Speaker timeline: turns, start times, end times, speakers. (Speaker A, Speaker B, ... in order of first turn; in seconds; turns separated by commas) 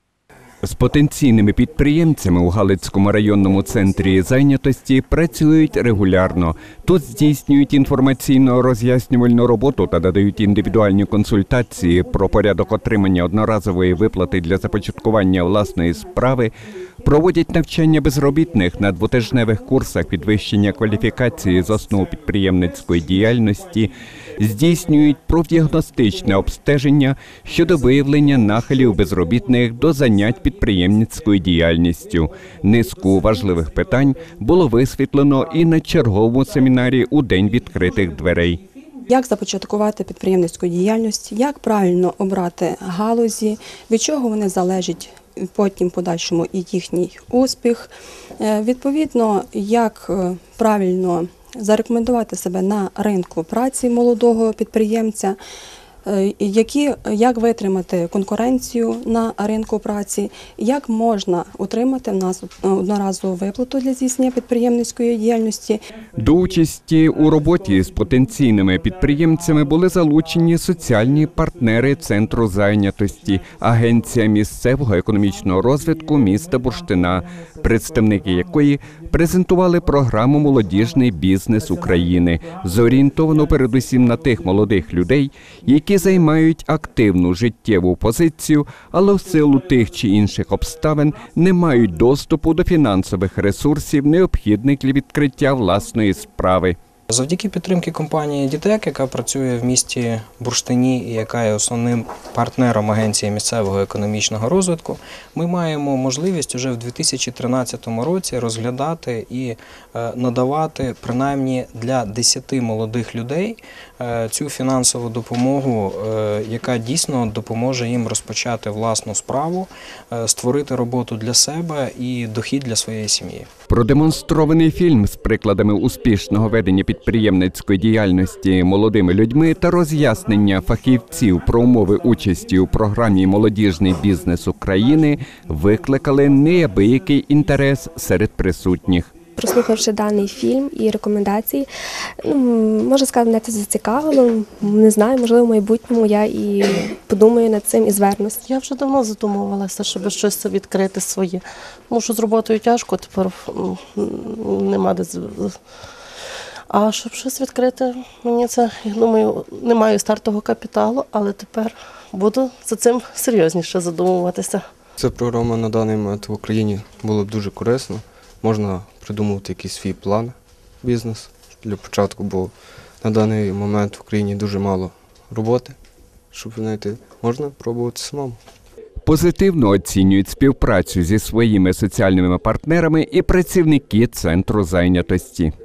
Speaker A: 0.6-16.5, Speaker A: 17.0-38.6, Speaker B: 39.1-55.4, Speaker B: 56.0-65.8, Speaker A: 66.2-96.8, Speaker C: 97.1-123.5, Speaker A: 123.7-139.2, Speaker D: 139.4-141.7, Speaker D: 142.2-148.5, Speaker E: 148.5-155.6, Speaker E: 156.7-164.7, Speaker F: 165.0-175.8, Speaker F: 176.3-178.4, Speaker A: 179.1-185.5